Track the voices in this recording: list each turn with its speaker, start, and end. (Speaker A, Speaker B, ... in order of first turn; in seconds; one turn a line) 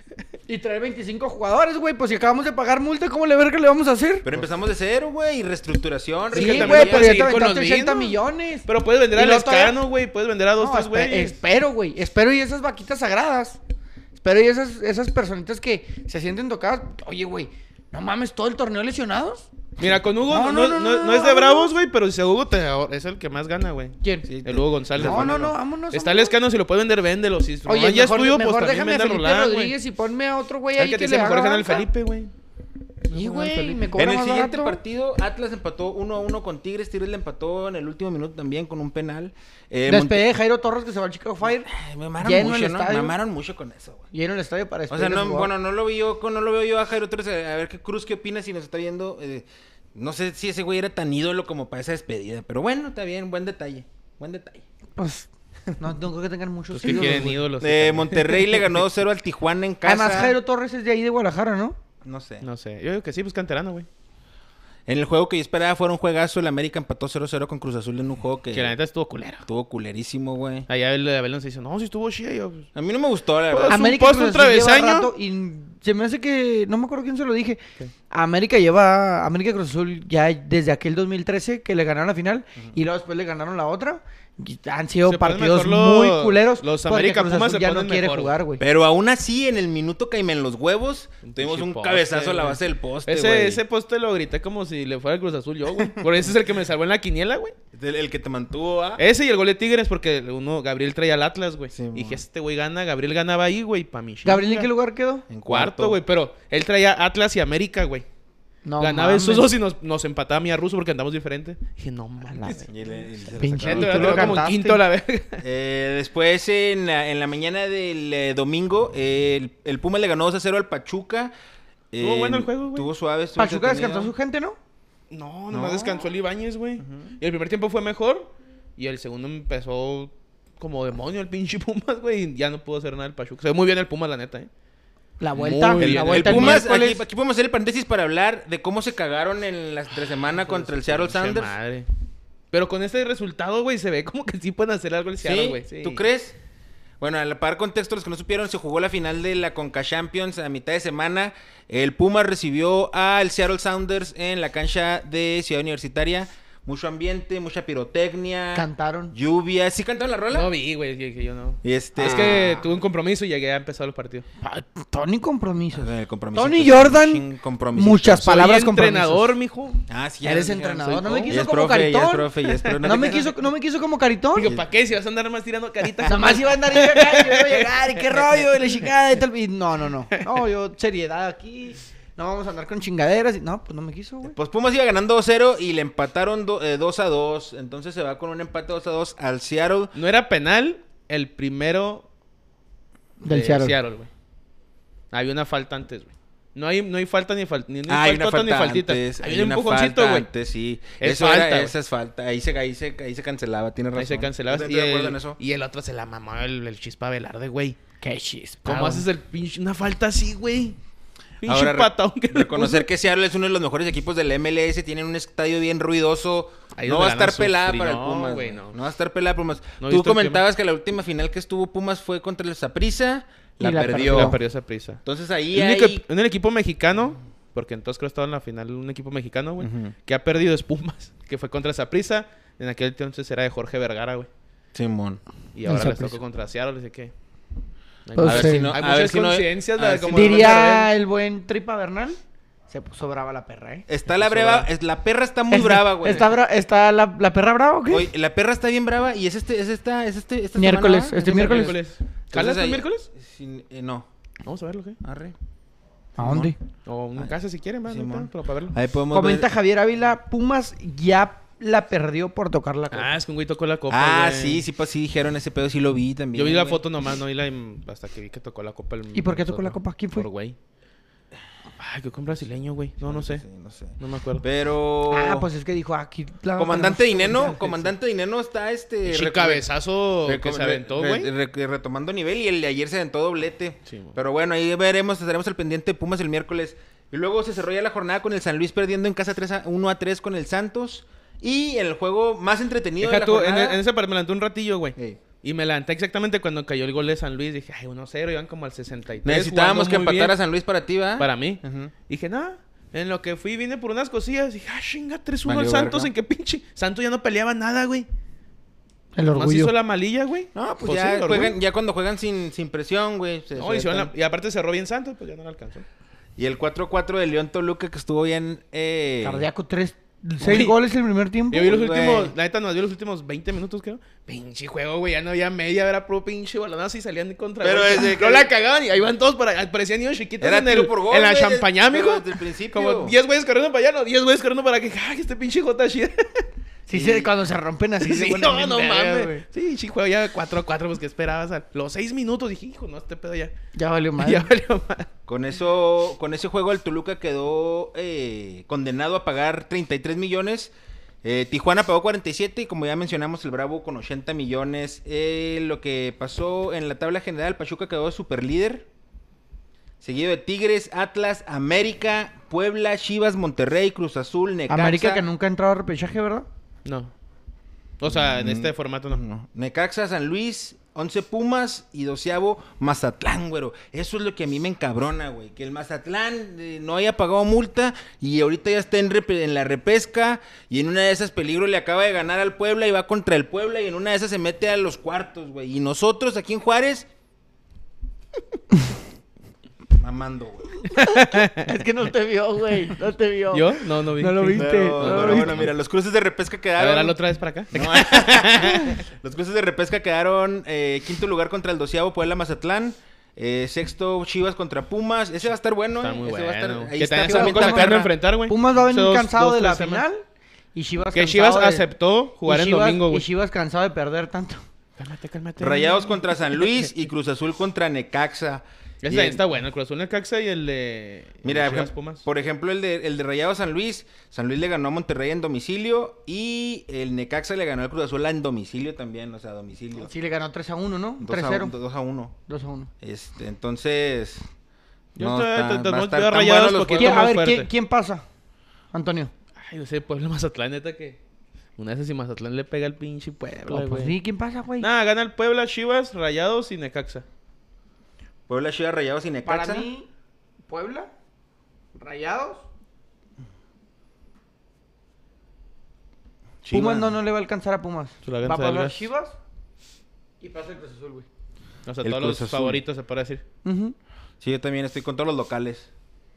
Speaker A: 0.5-4.3
Speaker B: 4.2-7.2
Speaker A: 6.3-9.8
Speaker C: 6.3-11.4
Speaker A: 10.6-13.6
Speaker A: 14.2-21.7
Speaker C: 19.8-29.7
Speaker A: 24.0-24.3
Speaker B: 24.3-25.5
Speaker A: 25.0-26.3
Speaker A: 27.6-31.9
Speaker C: 30.8-32.3
Speaker A: 33.1-34.8
Speaker B: 33.2-40.2
Speaker C: 33.4-33.6
Speaker A: 39.9-41.7
Speaker B: 41.5-44.0
Speaker A: 42.2-43.1
Speaker A: 44.1-45.5
Speaker B: 44.9-54.6
Speaker A: 55.0-57.4
Speaker C: 56.7-58.8
Speaker B: 56.8-60.4
Speaker A: 59.8-61.8
Speaker B: 62.0-62.4
Speaker C: 62.4-63.9
Speaker B: 64.9-68.7
Speaker C: 68.5-69.4
Speaker B: 69.4-70.7
Speaker C: 70.7-72.7
Speaker B: 72.7-73.9
Speaker C: 73.5-75.1
Speaker A: 73.7-88.6
Speaker C: 85.0-88.3
Speaker B: 88.6-93.6
Speaker C: 91.2-97.5
Speaker B: 95.8-96.2
Speaker B: 97.7-99.0
Speaker C: 99.0-104.7
Speaker B: 101.7-102.2
Speaker A: 104.2-105.2
Speaker B: 105.3-106.0
Speaker C: 105.5-108.0
Speaker A: 108.6-109.5
Speaker C: 108.8-112.7
Speaker B: 112.7-114.5
Speaker A: 113.4-114.8
Speaker C: 113.4-115.4
Speaker B: 115.4-121.3
Speaker B: 121.9-124.1
Speaker C: 122.0-122.9
Speaker A: 123.4-124.6
Speaker C: 125.1-134.5
Speaker B: 125.5-126.1
Speaker B: 126.8-127.1
Speaker A: 135.2-137.0
Speaker C: 135.3-136.6
Speaker B: 135.7-141.5
Speaker C: 140.4-141.9
Speaker C: 142.5-146.0
Speaker B: 145.2-146.4
Speaker B: 147.0-160.5
Speaker A: 158.5-159.1
Speaker C: 160.3-164.2
Speaker B: 161.6-162.6
Speaker A: 162.0-162.7
Speaker A: 164.4-169.3
Speaker B: 165.7-168.4
Speaker C: 168.2-169.8
Speaker B: 169.9-170.7
Speaker A: 170.2-172.3
Speaker C: 170.6-171.4
Speaker B: 171.3-173.2
Speaker C: 172.5-173.2
Speaker A: 172.8-174.5
Speaker C: 174.3-178.4
Speaker B: 174.4-174.7
Speaker A: 176.0-184.3
Speaker B: 184.2-189.9
Speaker C: 189.9-192.1
Speaker A: 193.2-193.8
Speaker C: 193.3-194.1
Speaker C: 195.1-200.3
Speaker B: 197.9-205.4
Speaker C: 201.0-201.7
Speaker C: 203.9-207.8
Speaker A: 208.0-209.1
Speaker C: 208.6-210.8
Speaker C: 211.4-212.9
Speaker B: 211.4-224.4
Speaker C: 216.8-218.7
Speaker C: 219.8-220.4
Speaker A: 223.6-224.4
Speaker C: 223.9-225.0
Speaker B: 225.0-226.0
Speaker C: 225.5-234.3
Speaker B: 229.6-229.9
Speaker B: 234.7-235.2
Speaker C: 235.5-237.1
Speaker A: 235.7-236.2
Speaker C: 238.1-240.9
Speaker A: 238.1-238.7
Speaker B: 238.2-240.6
Speaker A: 240.1-243.8
Speaker B: 243.9-246.3
Speaker C: 244.1-244.7
Speaker A: 245.5-248.1
Speaker B: 247.9-254.1
Speaker A: 250.5-251.8
Speaker C: 251.2-253.1
Speaker C: 254.4-255.0
Speaker B: 255.0-255.3
Speaker B: 256.2-256.5
Speaker A: 256.2-256.5
Speaker C: 256.9-258.7
Speaker B: 257.9-259.5
Speaker A: 259.1-263.1
Speaker C: 262.9-264.6
Speaker B: 263.9-266.8
Speaker C: 266.3-270.6
Speaker A: 269.1-270.2
Speaker C: 271.8-273.4
Speaker B: 273.0-275.5
Speaker C: 274.0-274.4
Speaker A: 275.1-277.6
Speaker B: 276.6-279.7
Speaker C: 279.1-281.3
Speaker B: 280.2-293.8
Speaker C: 283.9-284.1
Speaker C: 293.0-300.3
Speaker B: 299.2-301.9
Speaker C: 301.2-308.1
Speaker B: 305.4-306.1
Speaker A: 309.1-309.7
Speaker C: 309.3-311.6
Speaker B: 310.5-314.1
Speaker C: 313.6-315.8
Speaker B: 316.4-319.4
Speaker A: 319.2-321.8
Speaker C: 320.4-320.8
Speaker C: 321.5-336.4
Speaker B: 321.6-322.3
Speaker B: 327.6-328.5
Speaker B: 330.4-333.1
Speaker A: 336.9-339.4
Speaker B: 336.9-337.3
Speaker C: 338.0-343.5
Speaker A: 343.7-344.5
Speaker C: 344.2-345.1
Speaker B: 345.3-358.9
Speaker B: 360.0-365.2
Speaker A: 364.7-366.5
Speaker C: 366.8-367.1
Speaker C: 368.0-369.2
Speaker B: 368.1-387.1
Speaker B: 390.0-390.9
Speaker A: 390.9-395.6
Speaker C: 390.9-391.8
Speaker C: 393.5-395.7
Speaker B: 394.5-397.1
Speaker C: 396.8-399.0
Speaker B: 397.7-408.1
Speaker C: 406.0-410.1
Speaker A: 407.2-411.9
Speaker C: 411.1-413.3
Speaker A: 412.4-414.6
Speaker C: 415.0-416.1
Speaker B: 415.6-419.4
Speaker C: 419.0-422.2
Speaker B: 421.4-430.1
Speaker A: 429.9-431.7
Speaker B: 431.2-432.3
Speaker A: 432.5-432.9
Speaker B: 433.0-434.4
Speaker C: 435.1-437.7
Speaker B: 435.2-437.3
Speaker A: 437.0-438.2
Speaker A: 438.9-439.3
Speaker C: 439.6-441.2
Speaker C: 441.8-444.2
Speaker A: 443.7-444.9
Speaker C: 444.8-447.2
Speaker B: 448.5-449.9
Speaker A: 449.4-450.1
Speaker A: 450.7-451.1
Speaker A: 451.9-452.7
Speaker B: 456.6-457.1
Speaker A: 456.7-459.4
Speaker C: 458.2-459.1
Speaker A: 460.4-461.3
Speaker C: 461.9-463.4
Speaker B: 462.0-462.8
Speaker A: 463.6-463.9
Speaker B: 464.4-465.9